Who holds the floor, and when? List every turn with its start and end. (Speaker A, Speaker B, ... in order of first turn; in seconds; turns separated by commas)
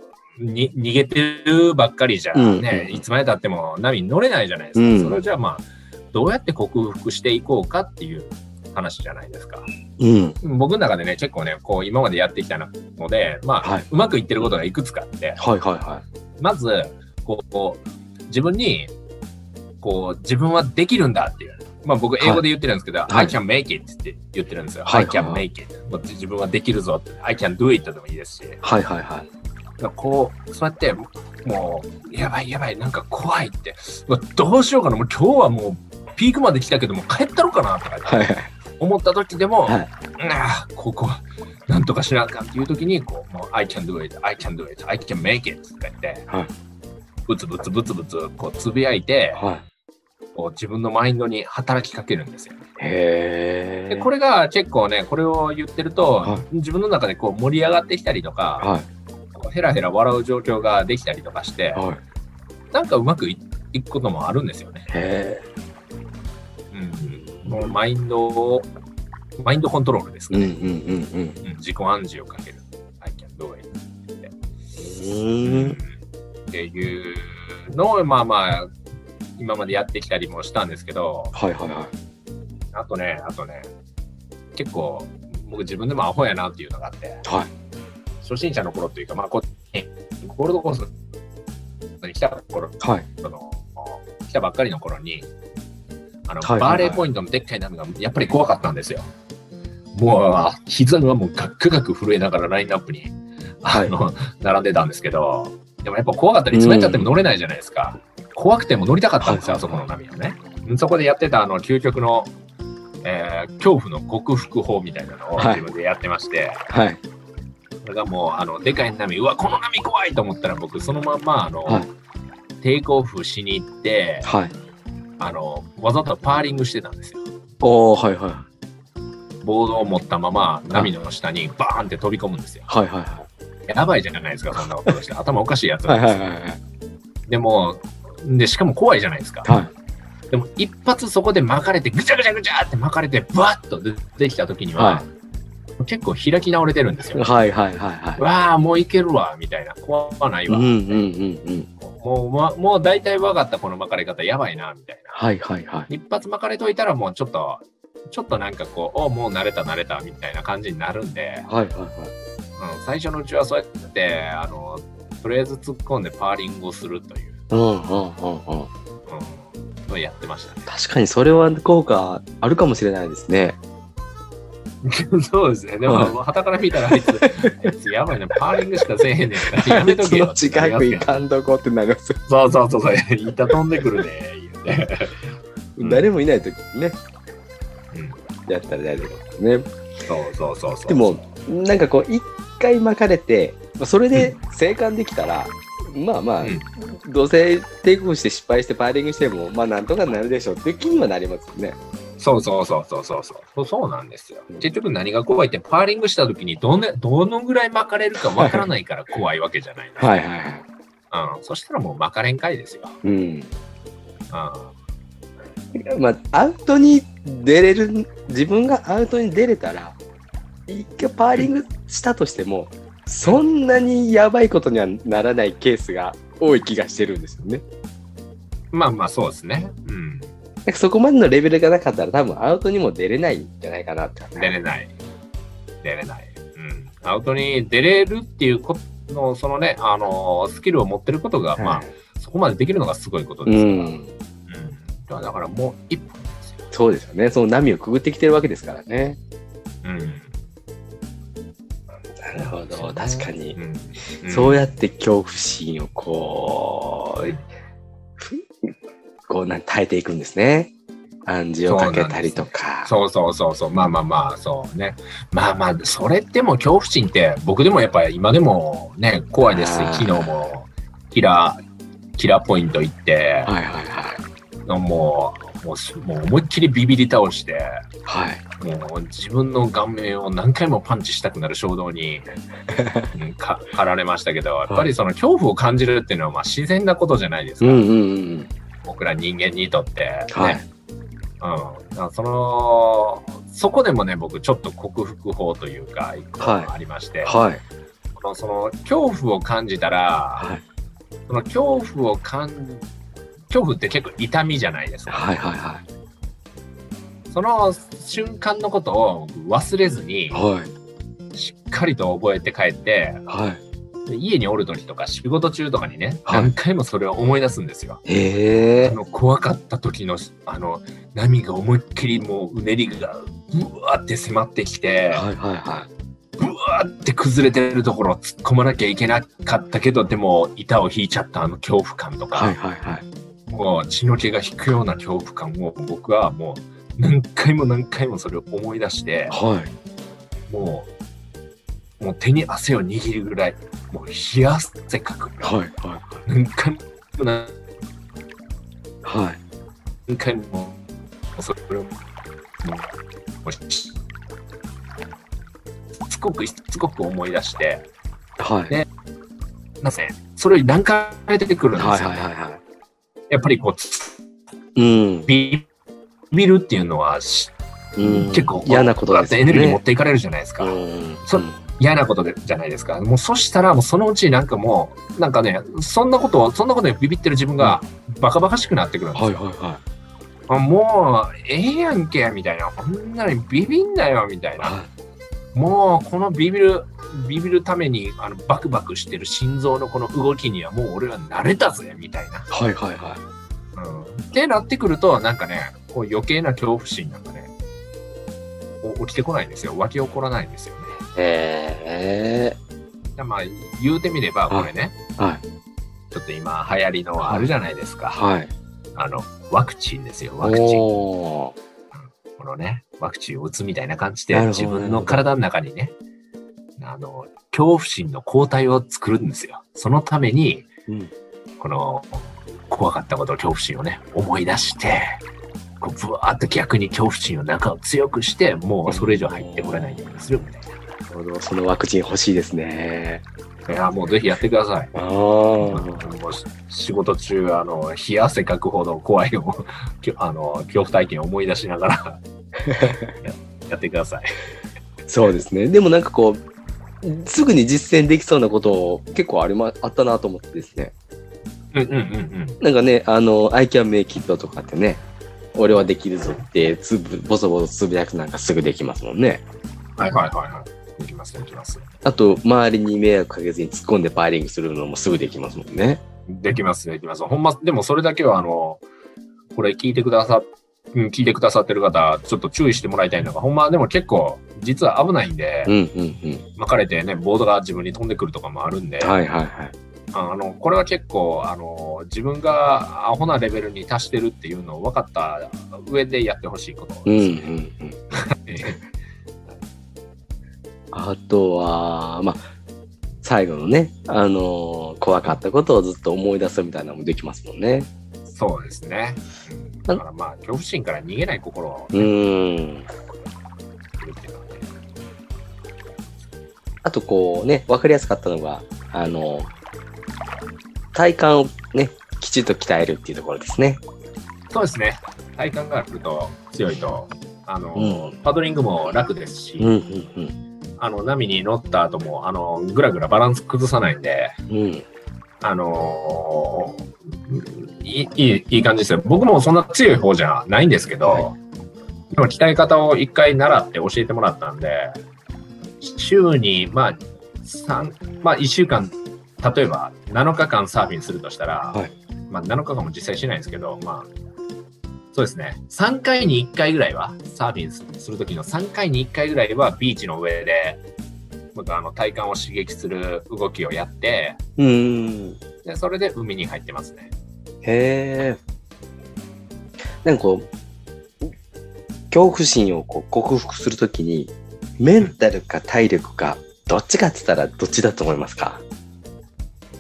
Speaker A: 0.4-9.7, Speaker B: 2.3-3.0, Speaker B: 4.8-5.2, Speaker B: 10.0-10.4, Speaker A: 10.4-15.4, Speaker B: 15.4-16.0, Speaker A: 16.4-18.9, Speaker A: 19.8-28.6, Speaker B: 23.1-23.4, Speaker B: 24.9-25.4, Speaker B: 28.6-29.3, Speaker A: 29.8-46.3, Speaker B: 38.1-38.5, Speaker A: 47.3-49.4, Speaker B: 49.4-49.6, Speaker A: 50.4-52.6, Speaker B: 52.8-54.1, Speaker A: 53.9-58.7, Speaker B: 58.6-58.9, Speaker A: 59.3-61.9, Speaker B: 61.8-62.0, Speaker A: 62.7-64.9, Speaker B: 64.9-65.4, Speaker A: 66.7-68.7, Speaker B: 67.2-67.7, Speaker A: 69.4-70.6, Speaker B: 70.3-71.4, Speaker A: 71.4-74.3, Speaker B: 74.8-75.8, Speaker A: 75.4-75.9, Speaker A: 76.5-78.7, Speaker A: 79.4-81.3, Speaker B: 81.3-81.9, Speaker A: 82.7-83.7, Speaker A: 84.5-87.2, Speaker B: 87.2-87.5, Speaker A: 88.2-90.9, Speaker A: 92.0-95.3, Speaker B: 92.8-93.1, Speaker A: 96.3-99.1, Speaker B: 96.4-97.0, Speaker A: 99.9-112.3, Speaker B: 103.7-104.0, Speaker B: 106.5-107.1, Speaker B: 109.2-109.8, Speaker A: 113.0-116.7, Speaker B: 115.4-115.7, Speaker B: 116.7-117.0, Speaker A: 117.8-121.9, Speaker A: 122.6-124.3, Speaker B: 124.2-124.5, Speaker A: 125.2-127.2, Speaker B: 127.6-128.5, Speaker A: 129.4-132.7, Speaker B: 132.7-133.3, Speaker A: 133.7-136.3, Speaker B: 135.9-136.6, Speaker A: 137.3-139.5, Speaker B: 139.5-139.7, Speaker A: 140.3-145.1, Speaker B: 144.8-145.1, Speaker A: 145.8-147.3, Speaker B: 147.2-148.2, Speaker A: 148.2-151.0, Speaker B: 150.5-151.7, Speaker A: 151.8-155.2, Speaker B: 155.1-155.9, Speaker A: 155.9-161.5, Speaker B: 161.5-162.1, Speaker A: 162.6-167.4, Speaker B: 167.5-168.7, Speaker A: 169.1-170.7, Speaker B: 170.7-173.6, Speaker A: 174.8-181.2, Speaker B: 175.9-176.2, Speaker B: 176.9-177.5, Speaker B: 179.6-182.2, Speaker A: 182.3-186.1, Speaker B: 185.8-187.0, Speaker A: 187.9-188.2, Speaker B: 188.5-189.7, Speaker A: 190.1-191.3, Speaker B: 190.9-201.8, Speaker A: 202.2-210.1, Speaker B: 208.4-208.7, Speaker B: 210.0-210.7, Speaker A: 211.1-213.0, Speaker B: 213.0-213.5, Speaker A: 214.3-214.7, Speaker B: 215.8-220.0, Speaker B: 220.7-227.6, Speaker A: 228.7-230.3, Speaker B: 230.7-234.6, Speaker A: 234.4-235.0, Speaker A: 235.8-243.9, Speaker B: 241.6-241.9, Speaker B: 243.5-244.1, Speaker A: 244.5-246.7, Speaker B: 246.7-249.2, Speaker A: 249.8-250.3, Speaker B: 252.2-253.6, Speaker A: 252.3-254.8, Speaker B: 254.2-257.4, Speaker B: 258.2-258.7, Speaker B: 259.3-260.7, Speaker B: 261.2-262.9, Speaker A: 261.7-271.6, Speaker B: 269.5-270.4, Speaker A: 272.2-273.5, Speaker B: 273.5-274.2, Speaker A: 274.7-277.8, Speaker B: 278.1-278.4, Speaker A: 278.6-282.3, Speaker B: 282.7-283.1, Speaker A: 283.1-287.8, Speaker B: 287.6-288.5, Speaker A: 288.8-290.6, Speaker B: 290.3-290.6, Speaker A: 291.4-297.4, Speaker B: 296.4-296.7, Speaker B: 297.2-297.6, Speaker A: 298.1-300.5, Speaker A: 301.3-302.9, Speaker A: 303.5-305.4, Speaker B: 305.1-305.8, Speaker A: 307.3-310.4, Speaker B: 310.3-310.7, Speaker A: 311.4-313.2, Speaker B: 313.3-313.6, Speaker A: 314.1-318.0, Speaker B: 316.3-316.5, Speaker B: 318.1-319.0, Speaker A: 318.8-325.3, Speaker B: 325.1-325.9, Speaker A: 326.4-332.6, Speaker B: 332.3-333.1, Speaker A: 333.5-339.4, Speaker B: 339.3-339.7, Speaker A: 340.5-340.9, Speaker A: 342.0-345.5, Speaker B: 345.4-346.2, Speaker A: 346.3-347.6, Speaker B: 349.0-349.4, Speaker A: 350.1-350.8, Speaker A: 351.4-352.0, Speaker A: 352.6-352.9, Speaker A: 353.4-354.0, Speaker A: 356.1-357.9, Speaker B: 358.4-358.7, Speaker A: 359.8-362.3, Speaker B: 361.8-362.6, Speaker A: 363.3-364.2, Speaker B: 364.8-365.3, Speaker A: 365.3-365.7, Speaker A: 366.3-379.4, Speaker B: 368.0-369.8, Speaker B: 370.6-371.6, Speaker B: 379.1-379.8, Speaker A: 380.5-384.8, Speaker B: 384.6-384.9, Speaker A: 385.5-392.5, Speaker B: 392.5-393.2, Speaker A: 393.8-397.5, Speaker A: 398.8-400.9, Speaker B: 401.1-402.6, Speaker A: 403.2-405.0, Speaker B: 404.5-405.4, Speaker A: 406.1-408.2, Speaker B: 408.1-408.5, Speaker A: 408.9-410.9, Speaker B: 410.4-411.5, Speaker A: 412.0-415.9, Speaker B: 414.3-415.2, Speaker A: 416.8-420.7, Speaker B: 420.9-421.1, Speaker A: 421.6-425.2, Speaker A: 425.8-430.8, Speaker B: 428.9-430.4, Speaker B: 431.1-433.2, Speaker A: 433.7-434.9, Speaker B: 434.9-436.1, Speaker A: 435.6-442.2, Speaker B: 442.7-443.1, Speaker A: 442.8-444.4, Speaker B: 445.1-446.4, Speaker B: 447.0-450.9, Speaker A: 451.7-452.6, Speaker B: 452.6-455.0, Speaker B: 455.5-459.4, Speaker A: 460.0-461.9, Speaker B: 462.1-466.0, Speaker A: 466.3-468.8, Speaker A: 469.5-475.8, Speaker B: 475.7-476.4, Speaker A: 476.6-479.2, Speaker B: 479.0-479.7, Speaker A: 480.1-487.5, Speaker B: 487.1-488.0, Speaker A: 488.2-488.8, Speaker B: 490.9-492.4, Speaker B: 493.2-497.9, Speaker A: 498.3-502.1, Speaker B: 501.9-502.9, Speaker A: 504.0-504.7, Speaker B: 506.8-509.5, Speaker B: 510.9-513.8, Speaker A: 514.5-519.7, Speaker B: 517.8-518.2, Speaker B: 519.6-520.4, Speaker A: 520.8-524.4, Speaker B: 524.5-524.9, Speaker A: 525.4-531.4, Speaker A: 532.1-534.9, Speaker A: 535.8-544.1, Speaker A: 545.1-550.8, Speaker A: 551.5-554.4, Speaker B: 554.6-555.4, Speaker A: 555.6-557.1, Speaker B: 557.6-558.4, Speaker B: 560.0-560.5, Speaker B: 562.1-568.6